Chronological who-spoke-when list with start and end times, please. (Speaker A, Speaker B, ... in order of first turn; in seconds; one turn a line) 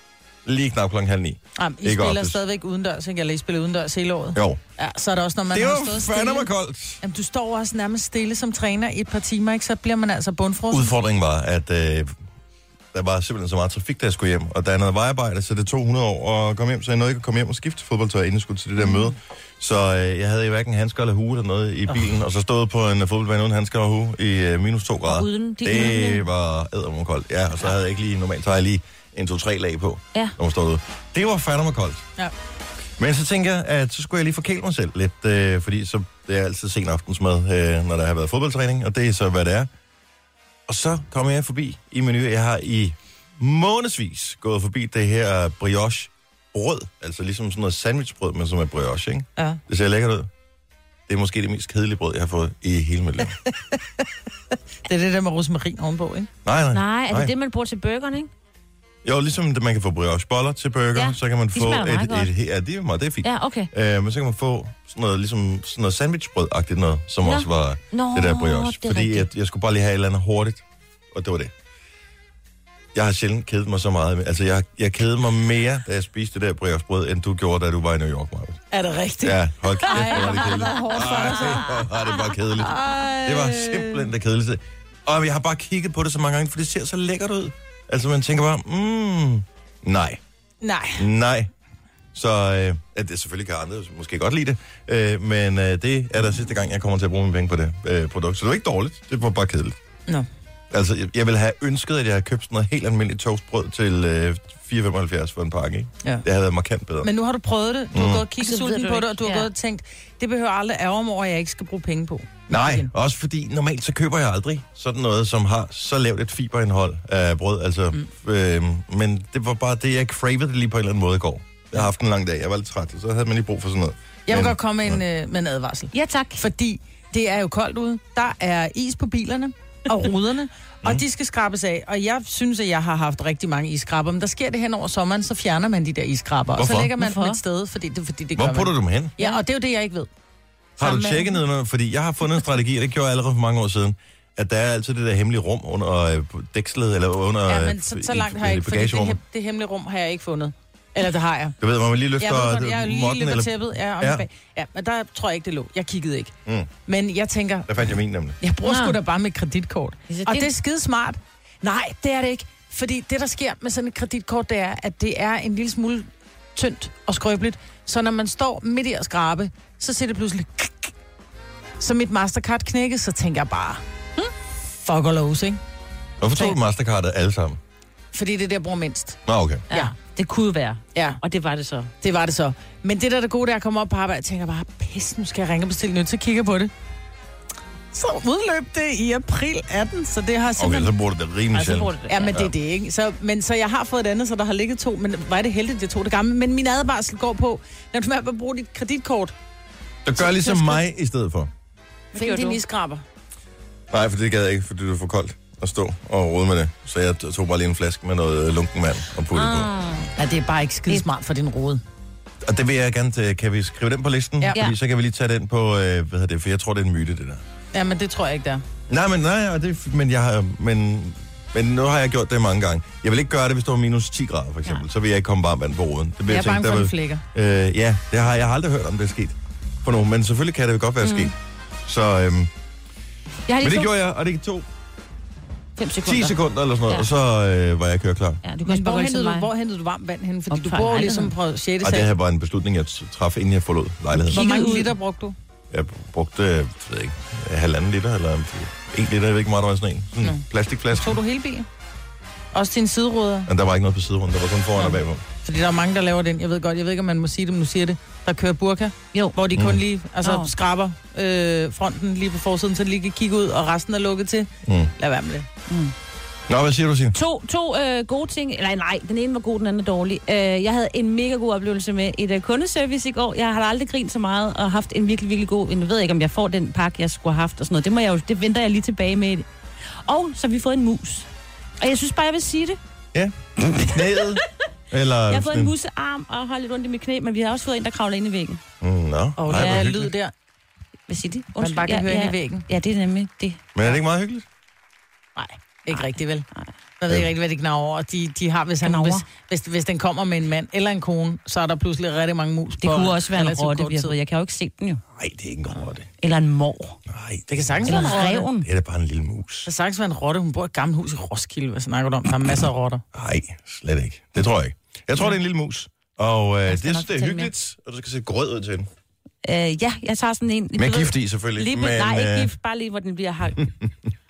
Speaker A: 0.4-2.4
Speaker B: 1.6-6.5
Speaker A: 4.3-4.6
Speaker A: 5.5-7.0
Speaker B: 7.0-10.9
Speaker A: 10.7-12.1
Speaker A: 12.9-32.0
Speaker C: 25.1-26.2
Speaker A: 33.0-39.7
Speaker A: 40.7-50.3
Speaker A: 51.1-53.4
Speaker B: 54.9-56.3
Speaker A: 56.4-57.3
Speaker C: 56.7-58.3
Speaker A: 59.0-71.5
Speaker C: 60.9-62.3
Speaker C: 63.2-63.7
Speaker C: 67.2-69.3
Speaker A: 72.9-78.6
Speaker B: 78.7-81.8
Speaker A: 79.2-90.2
Speaker C: 79.9-82.1
Speaker B: 82.6-84.1
Speaker B: 90.6-91.0
Speaker A: 91.0-91.5
Speaker A: 92.1-99.8
Speaker A: 100.7-107.1
Speaker B: 107.0-112.9
Speaker A: 107.9-108.2
Speaker C: 108.4-109.5
Speaker A: 112.5-125.0
Speaker B: 124.3-140.1
Speaker C: 125.9-126.4
Speaker A: 136.6-136.9
Speaker C: 137.0-137.4
Speaker A: 138.3-139.1
Speaker C: 140.8-141.4
Speaker A: 140.8-149.2
Speaker B: 147.5-151.6
Speaker A: 151.6-154.2
Speaker B: 152.2-156.3
Speaker B: 156.8-157.7
Speaker A: 157.7-158.4
Speaker B: 158.4-170.9
Speaker C: 158.6-159.0
Speaker C: 160.1-160.5
Speaker B: 171.8-174.3
Speaker B: 174.8-175.6
Speaker A: 176.2-177.6
Speaker B: 178.1-179.2
Speaker A: 179.2-179.7
Speaker C: 179.7-181.9
Speaker B: 180.9-181.2
Speaker B: 182.0-186.7
Speaker B: 187.9-190.9
Speaker A: 190.6-192.5
Speaker C: 191.5-192.4
Speaker B: 192.1-199.3
Speaker A: 200.0-201.5
Speaker C: 202.1-202.6
Speaker B: 202.1-203.0
Speaker A: 203.9-209.7
Speaker C: 209.3-210.1
Speaker B: 210.2-211.8
Speaker A: 212.4-217.4
Speaker B: 217.7-218.6
Speaker A: 218.9-231.3
Speaker B: 226.3-227.2
Speaker C: 231.0-231.3
Speaker A: 231.8-232.5
Speaker C: 233.5-233.9
Speaker A: 233.6-234.7
Speaker C: 235.8-236.3
Speaker A: 236.0-238.4
Speaker C: 238.4-239.5
Speaker B: 238.6-242.1
Speaker C: 240.5-241.3
Speaker A: 241.8-244.5
Speaker C: 244.2-244.9
Speaker B: 244.3-245.3
Speaker A: 245.7-251.2
Speaker B: 250.2-251.7
Speaker B: 252.5-253.5
Speaker A: 253.5-255.2
Speaker B: 254.8-265.5
Speaker C: 259.1-259.4
Speaker A: 259.5-259.8
Speaker C: 260.2-260.5
Speaker A: 264.6-264.9
Speaker C: 265.7-265.9
Speaker A: 266.5-267.1
Speaker C: 267.1-281.3
Speaker C: 281.8-282.8
Speaker A: 283.1-285.7
Speaker C: 283.9-284.4
Speaker C: 285.3-288.6
Speaker A: 288.8-290.1
Speaker B: 289.4-290.3
Speaker C: 289.5-289.9
Speaker C: 291.1-293.6
Speaker B: 291.6-292.6
Speaker A: 293.7-294.4
Speaker B: 295.4-296.4
Speaker C: 295.9-296.7
Speaker B: 297.0-304.1
Speaker C: 298.8-299.2
Speaker C: 302.8-305.0
Speaker A: 305.1-306.1
Speaker C: 306.2-307.0
Speaker A: 307.1-309.7
Speaker B: 307.5-308.5
Speaker C: 307.9-308.7
Speaker B: 309.6-313.0
Speaker A: 313.1-318.9
Speaker C: 316.7-317.5
Speaker C: 319.4-323.7
Speaker A: 320.8-322.5